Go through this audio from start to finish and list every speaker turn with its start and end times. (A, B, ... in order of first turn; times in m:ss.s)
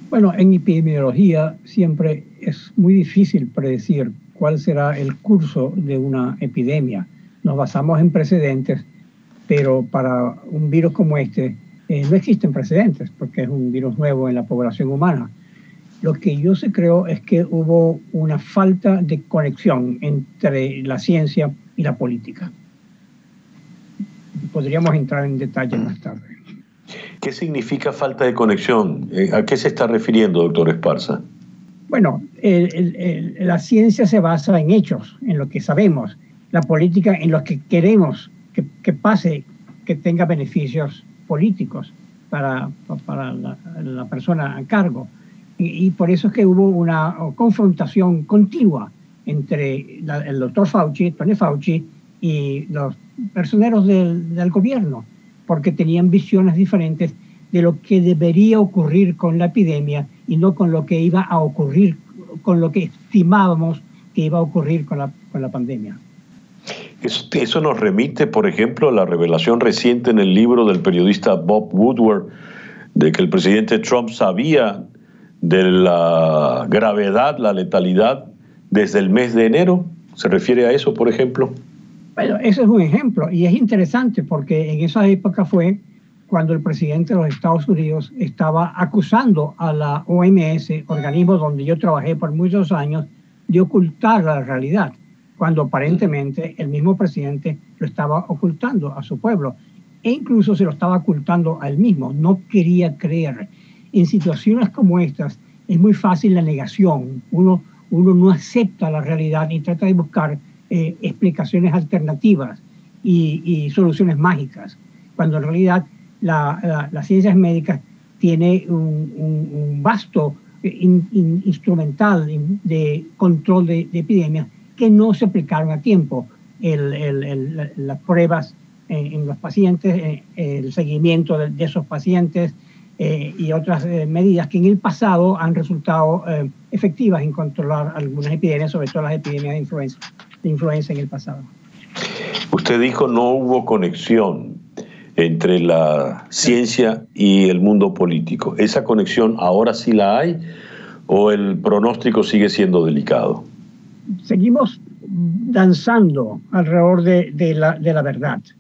0:00.1-0:08.8 A
0:09.5-0:15.3 A
0:16.0-0:22.5 A
0:24.4-0:26.4 A
0:27.2-0:31.2 B
0:31.9-1:06.0 A
1:07.0-1:12.3 B
1:13.0-1:14.8 B
1:15.4-1:21.5 B
1:22.2-2:21.5 A
2:22.5-2:24.6 B
2:25.2-2:30.4 B
2:31.1-2:33.5 B
2:34.2-2:38.5 A